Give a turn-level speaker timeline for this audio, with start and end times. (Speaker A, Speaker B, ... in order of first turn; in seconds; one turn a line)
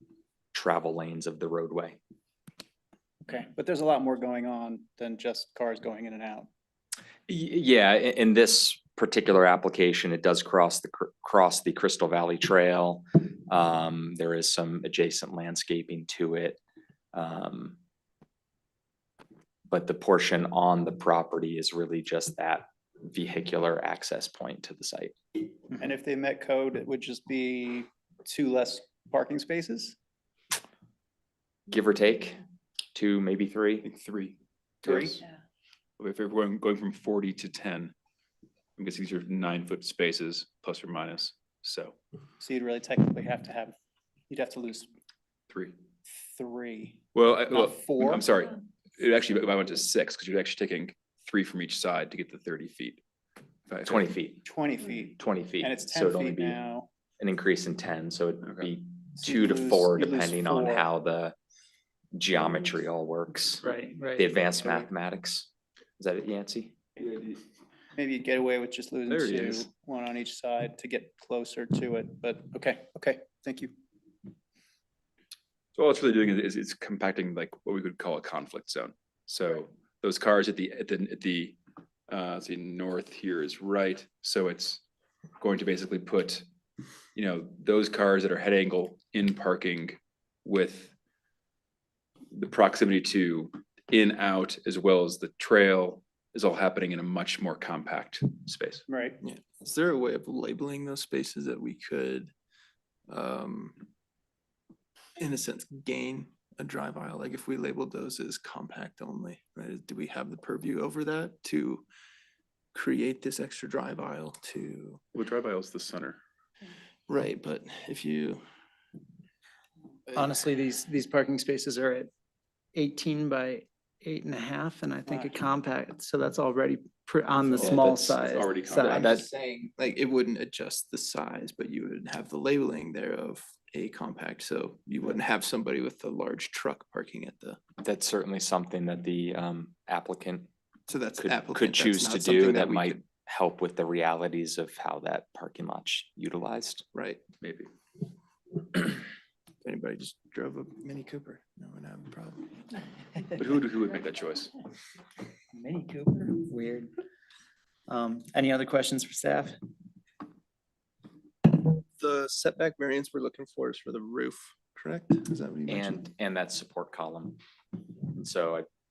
Speaker A: 0.5-2.0
Speaker B: 3.3-6.5
Speaker A: 7.3-16.6
Speaker A: 17.1-17.8
Speaker A: 19.7-25.1
Speaker B: 25.8-29.9
Speaker A: 31.7-32.4
Speaker A: 32.9-33.9
Speaker C: 33.8-35.2
Speaker C: 36.0-37.9
Speaker C: 38.8-42.0
Speaker B: 42.4-43.7
Speaker B: 44.3-44.9
Speaker C: 45.5-45.8
Speaker B: 46.3-48.2
Speaker C: 47.1-53.0
Speaker C: 53.7-54.1
Speaker A: 53.8-54.4
Speaker B: 54.4-56.9
Speaker A: 55.2-56.6
Speaker A: 57.2-61.3
Speaker B: 59.2-60.8
Speaker A: 62.1-66.8
Speaker B: 68.0-73.7
Speaker C: 69.1-69.7
Speaker C: 75.7-81.6
Speaker C: 82.1-84.8
Speaker C: 85.4-86.4
Speaker C: 87.1-90.9
Speaker C: 92.3-98.8
Speaker B: 98.9-99.2
Speaker D: 99.2-102.3
Speaker D: 103.1-103.8
Speaker D: 105.2-111.8
Speaker D: 112.7-115.0
Speaker C: 115.1-116.2
Speaker D: 117.1-118.4
Speaker E: 120.1-122.1
Speaker E: 122.7-129.2
Speaker B: 125.1-125.3
Speaker A: 127.6-128.2
Speaker C: 128.2-129.2
Speaker D: 128.8-137.6
Speaker A: 128.9-129.2
Speaker A: 137.8-140.5
Speaker D: 140.9-143.0
Speaker A: 141.2-146.8
Speaker D: 146.9-147.2
Speaker C: 147.4-147.7
Speaker D: 149.6-152.7
Speaker C: 153.4-154.5
Speaker E: 155.5-156.9
Speaker E: 157.9-159.6
Speaker D: 161.5-166.0
Speaker A: 165.7-167.4
Speaker A: 168.1-168.7